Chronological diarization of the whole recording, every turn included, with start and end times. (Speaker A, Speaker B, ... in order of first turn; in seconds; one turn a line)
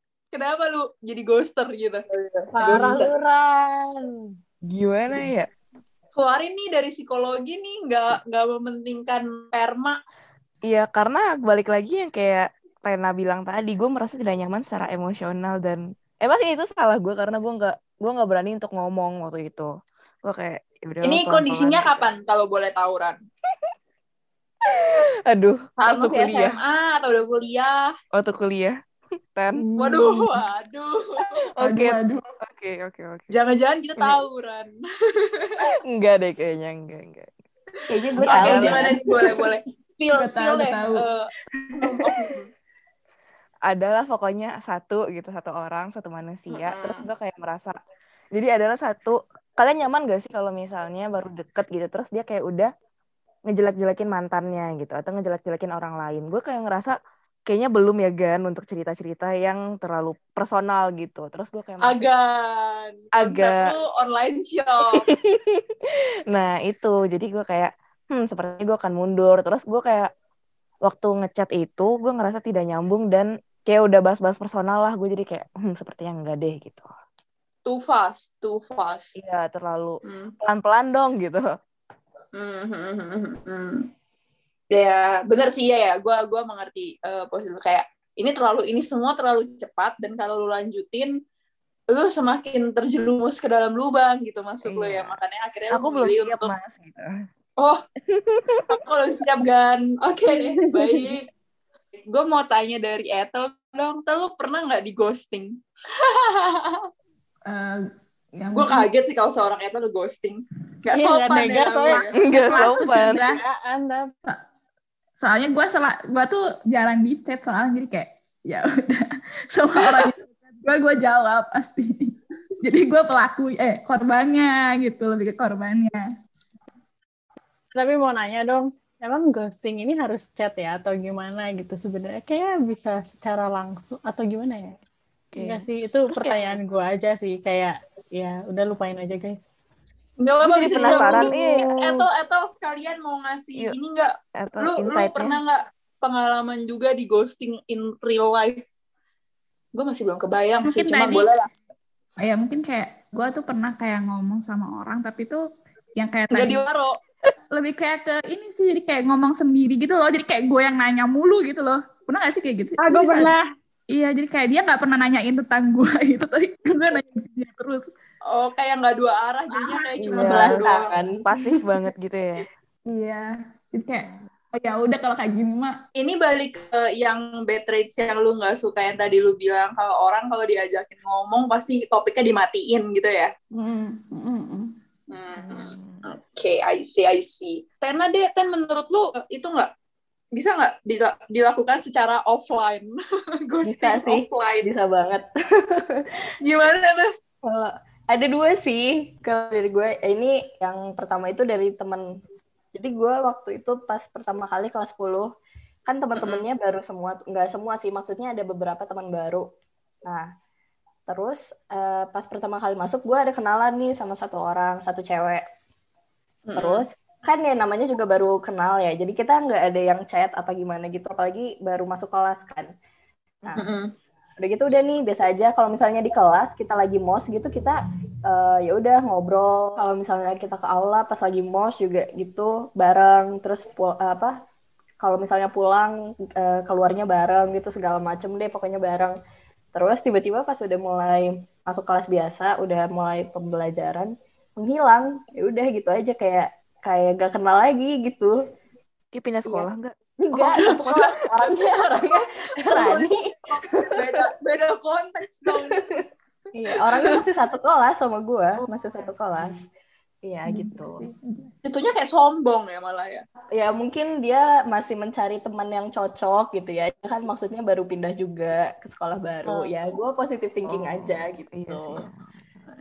Speaker A: 0.3-2.0
Speaker B: 2.1-4.0
Speaker C: 2.6-3.0
Speaker A: 2.6-3.1
Speaker D: 4.7-5.5
Speaker A: 6.1-10.0
Speaker D: 10.7-19.7
Speaker D: 20.2-22.1
Speaker A: 21.0-23.1
Speaker D: 24.6-26.6
Speaker A: 25.8-27.9
Speaker D: 28.1-28.7
Speaker D: 29.3-29.6
Speaker C: 29.7-30.0
Speaker A: 29.8-31.4
Speaker D: 31.2-33.3
Speaker E: 31.6-32.3
Speaker A: 33.3-34.7
Speaker A: 35.2-35.5
Speaker D: 35.7-37.3
Speaker B: 37.9-38.9
Speaker D: 38.2-39.0
Speaker A: 38.2-41.3
Speaker E: 40.1-41.1
Speaker A: 41.8-42.5
Speaker D: 43.7-47.8
Speaker A: 46.5-47.0
Speaker D: 48.3-52.7
Speaker D: 53.5-56.9
Speaker D: 57.5-62.1
Speaker A: 61.8-65.1
Speaker D: 63.2-63.7
Speaker D: 64.9-70.1
Speaker D: 70.8-76.9
Speaker A: 77.7-79.1
Speaker D: 79.2-81.4
Speaker A: 80.0-80.3
Speaker A: 82.3-83.8
Speaker A: 84.7-91.1
Speaker A: 91.9-96.5
Speaker D: 94.6-95.2
Speaker D: 95.7-97.1
Speaker D: 98.1-98.8
Speaker A: 98.7-101.2
Speaker A: 102.1-106.8
Speaker E: 107.5-107.8
Speaker E: 108.4-108.9
Speaker A: 108.5-112.1
Speaker C: 110.9-114.1
Speaker E: 111.9-113.4
Speaker D: 112.2-113.2
Speaker E: 115.2-126.0
Speaker C: 127.7-134.8
Speaker D: 135.3-136.6
Speaker C: 135.4-139.4
Speaker A: 140.2-148.7
Speaker D: 140.4-142.1
Speaker D: 144.4-145.4
Speaker A: 149.8-151.4
Speaker E: 150.6-151.3
Speaker E: 152.2-155.4
Speaker E: 155.9-156.6
Speaker A: 156.3-156.9
Speaker E: 157.5-163.3
Speaker C: 162.8-163.4
Speaker E: 163.9-167.9
Speaker A: 168.3-170.9
Speaker E: 169.5-170.2
Speaker B: 170.0-171.2
Speaker D: 170.2-170.6
Speaker D: 171.2-172.5
Speaker E: 172.9-175.8
Speaker A: 176.0-183.3
Speaker E: 183.5-184.7
Speaker A: 185.1-189.7
Speaker D: 185.3-186.0
Speaker A: 190.3-192.9
Speaker A: 193.5-194.7
Speaker B: 193.6-196.0
Speaker A: 196.4-197.1
Speaker B: 197.4-202.0
Speaker B: 202.7-205.2
Speaker B: 205.9-209.4
Speaker A: 206.2-206.4
Speaker B: 211.1-215.4
Speaker A: 216.5-216.8
Speaker B: 216.6-222.7
Speaker A: 223.5-223.9
Speaker B: 224.4-234.3
Speaker B: 235.0-239.2
Speaker B: 239.7-248.3
Speaker D: 249.1-249.9
Speaker B: 250.2-253.8
Speaker A: 250.3-252.2
Speaker A: 253.9-256.0
Speaker B: 256.5-259.7
Speaker B: 260.2-261.0
Speaker E: 260.5-261.5
Speaker A: 261.6-263.2
Speaker B: 263.5-272.1
Speaker D: 270.6-272.4